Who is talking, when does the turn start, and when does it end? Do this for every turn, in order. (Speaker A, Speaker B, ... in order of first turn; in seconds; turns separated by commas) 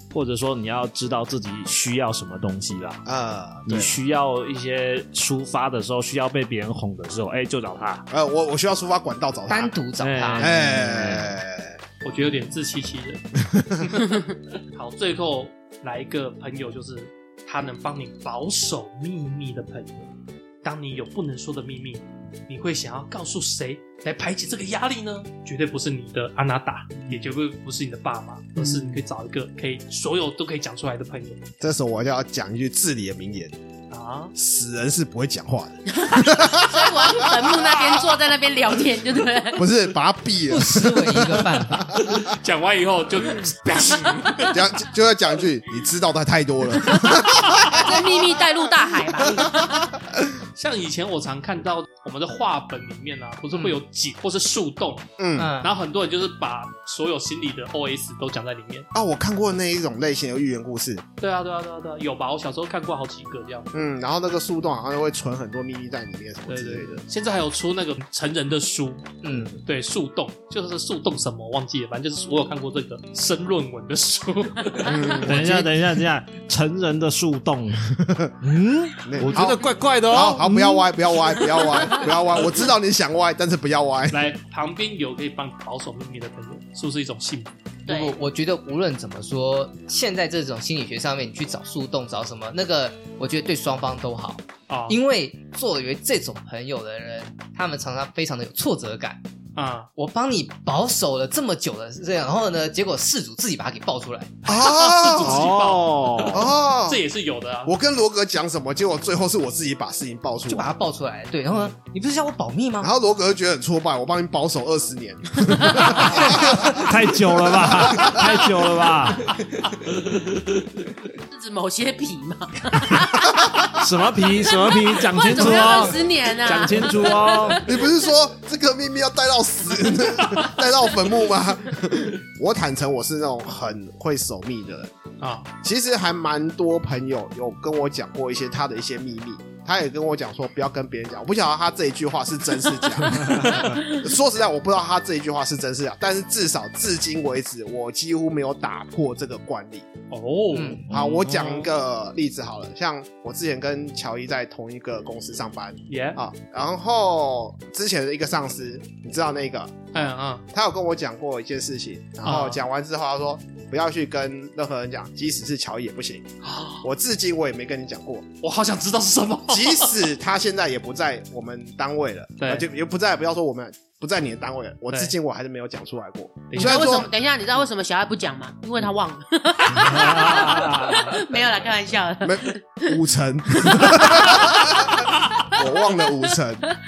Speaker A: 0.1-3.0, Speaker B: 3.0-4.0, Speaker A: 3.7-8.1, Speaker B: 8.1-9.7, Speaker C: 9.5-10.5, Speaker D: 10.0-10.4, Speaker A: 10.2-11.4, Speaker B: 10.4-11.8, Speaker D: 12.0-20.1, Speaker B: 13.4-13.9, Speaker D: 20.6-31.4, Speaker E: 28.6-29.0, Speaker B: 31.6-33.5, Speaker D: 33.9-34.3, Speaker B: 34.3-37.9, Speaker E: 35.9-39.6, Speaker B: 39.5-42.1, Speaker C: 40.5-42.0, Speaker D: 42.0-44.6, Speaker B: 44.5-48.1, Speaker E: 46.8-49.9, Speaker D: 47.1-48.1, Speaker B: 49.4-50.2, Speaker D: 50.5-55.1, Speaker C: 53.5-53.8, Speaker B: 55.2-55.5, Speaker C: 55.4-55.7, Speaker D: 55.6-58.9, Speaker B: 58.9-61.0, Speaker D: 61.2-63.7, Speaker B: 63.7-67.0, Speaker D: 66.5-75.4, Speaker C: 69.2-69.5, Speaker B: 69.3-69.6, Speaker E: 74.8-75.1, Speaker B: 74.8-75.7, Speaker A: 75.2-80.8, Speaker B: 78.0-78.3, Speaker B: 79.0-84.2, Speaker E: 81.2-82.1, Speaker D: 84.1-87.5, Speaker E: 87.9-88.2, Speaker C: 87.9-99.2, Speaker D: 94.7-95.0, Speaker D: 99.5-99.9, Speaker C: 100.0-104.4, Speaker B: 104.5-105.5, Speaker D: 104.5-107.7, Speaker A: 105.2-106.4, Speaker B: 106.3-107.0, Speaker B: 107.6-110.7, Speaker C: 110.5-112.9, Speaker B: 112.8-116.8, Speaker E: 115.7-115.9, Speaker A: 115.9-119.4, Speaker B: 117.5-118.4, Speaker E: 121.3-123.8, Speaker B: 123.1-123.7, Speaker A: 123.8-127.7, Speaker E: 124.3-127.9, Speaker B: 127.6-134.9, Speaker D: 135.2-135.5, Speaker B: 135.6-149.9, Speaker E: 143.6-144.0, Speaker D: 150.1-150.8, Speaker C: 150.5-150.8, Speaker A: 150.8-151.7, Speaker B: 150.9-159.9, Speaker D: 155.9-156.2, Speaker D: 159.9-160.4, Speaker B: 160.5-166.3, Speaker D: 162.2-162.6, Speaker D: 166.4-166.8, Speaker B: 166.8-168.2, Speaker D: 168.4-170.0, Speaker B: 169.5-177.1, Speaker D: 172.4-172.7, Speaker D: 174.9-175.1, Speaker D: 176.5-177.0, Speaker E: 176.6-183.0, Speaker A: 179.8-181.0, Speaker D: 180.4-181.2, Speaker B: 182.2-186.6, Speaker E: 183.6-186.3